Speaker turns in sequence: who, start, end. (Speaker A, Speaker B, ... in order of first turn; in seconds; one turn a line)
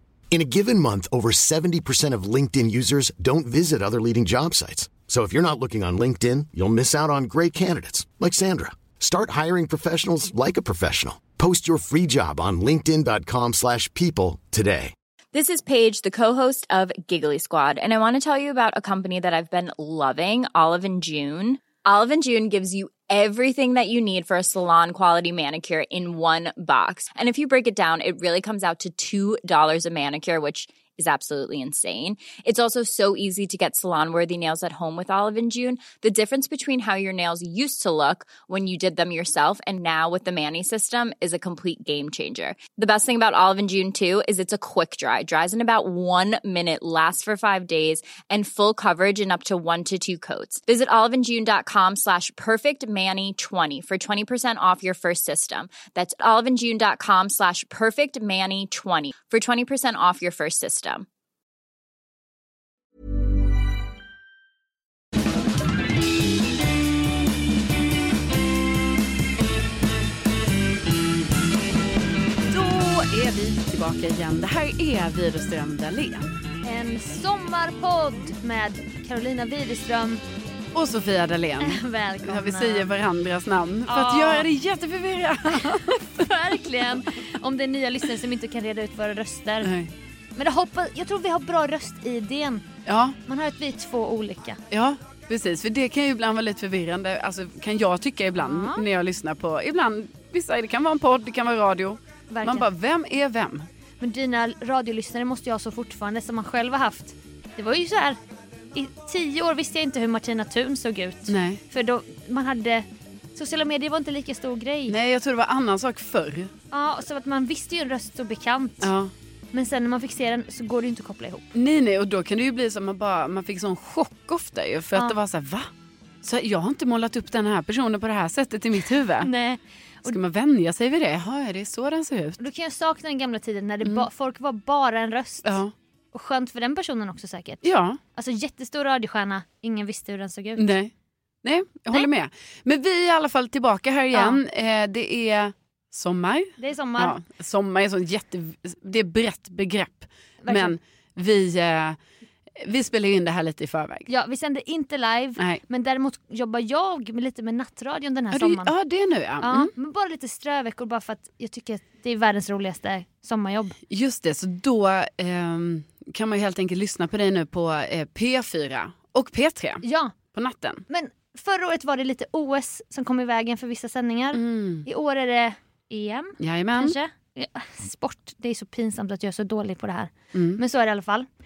Speaker A: 0.3-14.9
Speaker B: 15.3-61.1
Speaker C: 72.5-76.3
Speaker D: 76.6-80.2
Speaker C: 80.7-86.3
Speaker D: 81.6-83.0
Speaker D: 83.9-84.5
Speaker D: 85.5-89.7
Speaker C: 89.6-89.9
Speaker D: 90.4-92.7
Speaker C: 92.9-93.2
Speaker D: 93.3-94.6
Speaker C: 94.7-103.7
Speaker D: 98.4-98.8
Speaker D: 102.3-102.7
Speaker D: 104.0-108.2
Speaker D: 108.7-115.0
Speaker C: 111.3-111.6
Speaker C: 114.9-116.5
Speaker D: 116.7-118.9
Speaker C: 118.8-119.1
Speaker D: 119.5-121.5
Speaker C: 121.5-125.7
Speaker C: 126.2-129.3
Speaker D: 129.2-130.2
Speaker C: 130.1-132.4
Speaker D: 132.4-140.7
Speaker C: 135.4-135.7
Speaker C: 137.6-138.0
Speaker C: 140.6-140.9
Speaker C: 141.4-152.0
Speaker D: 144.1-144.4
Speaker D: 146.6-147.2
Speaker D: 150.4-150.8
Speaker C: 152.6-154.1
Speaker D: 154.1-158.7
Speaker C: 158.3-159.7
Speaker D: 159.4-163.8
Speaker C: 163.9-170.8
Speaker D: 169.8-170.2
Speaker D: 170.9-181.3
Speaker C: 174.3-174.9
Speaker C: 176.4-177.0
Speaker C: 180.3-180.6